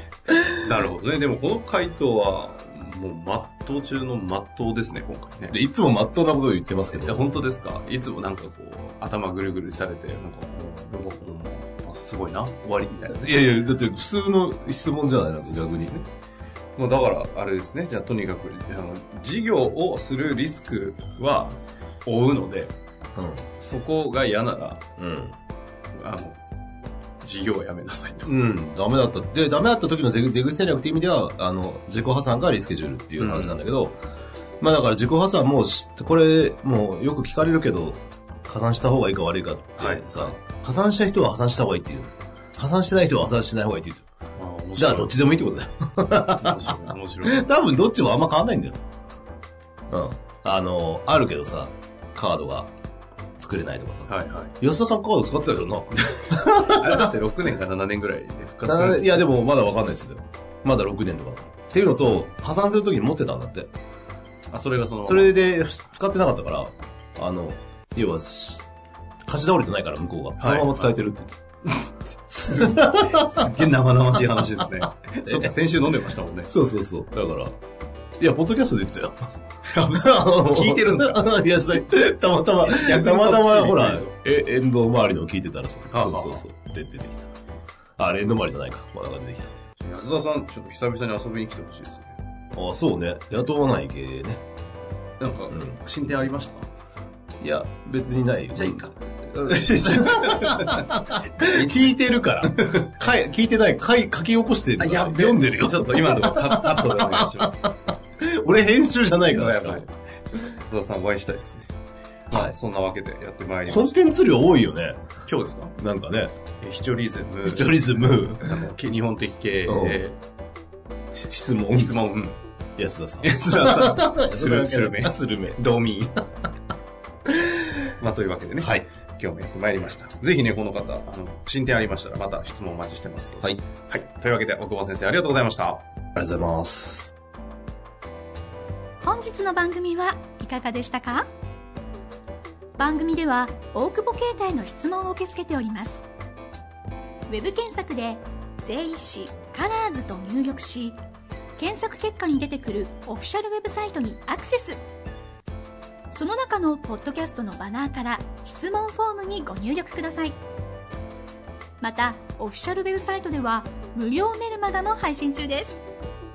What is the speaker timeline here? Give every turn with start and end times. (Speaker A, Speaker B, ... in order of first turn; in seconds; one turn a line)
Speaker A: 0.4-5.6
Speaker B: 5.5-7.3
Speaker A: 6.9-13.5
Speaker B: 13.1-15.9
Speaker A: 15.5-16.1
Speaker A: 16.8-22.7
Speaker B: 23.1-23.4
Speaker A: 23.6-24.8
Speaker B: 25.0-25.3
Speaker A: 25.9-26.4
Speaker A: 27.2-28.3
Speaker B: 28.2-33.9
Speaker A: 33.2-33.6
Speaker B: 34.6-44.0
Speaker A: 39.8-40.4
Speaker A: 44.4-45.1
Speaker B: 44.8-48.8
Speaker A: 46.2-47.5
Speaker B: 49.9-52.7
Speaker B: 53.4-57.1
Speaker A: 54.1-54.5
Speaker A: 56.4-59.3
Speaker B: 58.6-63.7
Speaker A: 64.5-65.3
Speaker B: 65.0-68.7
Speaker B: 69.2-71.4
Speaker A: 70.4-70.9
Speaker A: 71.7-76.5
Speaker B: 72.5-73.4
Speaker B: 75.2-75.5
Speaker B: 76.5-77.6
Speaker B: 78.2-79.3
Speaker A: 79.7-81.8
Speaker B: 79.9-87.3
Speaker A: 82.6-84.1
Speaker A: 85.9-86.4
Speaker B: 88.0-89.5
Speaker A: 89.8-92.2
Speaker B: 92.5-94.4
Speaker A: 95.2-96.7
Speaker B: 95.5-95.8
Speaker B: 97.4-98.9
Speaker A: 98.5-102.9
Speaker B: 99.4-109.8
Speaker A: 104.8-107.7
Speaker A: 109.2-111.7
Speaker A: 112.3-114.0
Speaker B: 113.7-115.0
Speaker A: 115.2-115.7
Speaker B: 115.8-116.3
Speaker A: 116.6-120.2
Speaker B: 117.4-118.6
Speaker B: 119.7-120.0
Speaker B: 121.1-122.0
Speaker A: 121.7-122.4
Speaker B: 122.8-125.6
Speaker A: 123.2-126.2
Speaker A: 128.0-135.8
Speaker B: 128.6-128.8
Speaker B: 136.1-137.1
Speaker C: 139.0-141.3
Speaker C: 142.8-146.1
Speaker C: 147.3-151.0
Speaker C: 151.6-154.8
Speaker C: 156.1-160.4
Speaker C: 161.8-165.8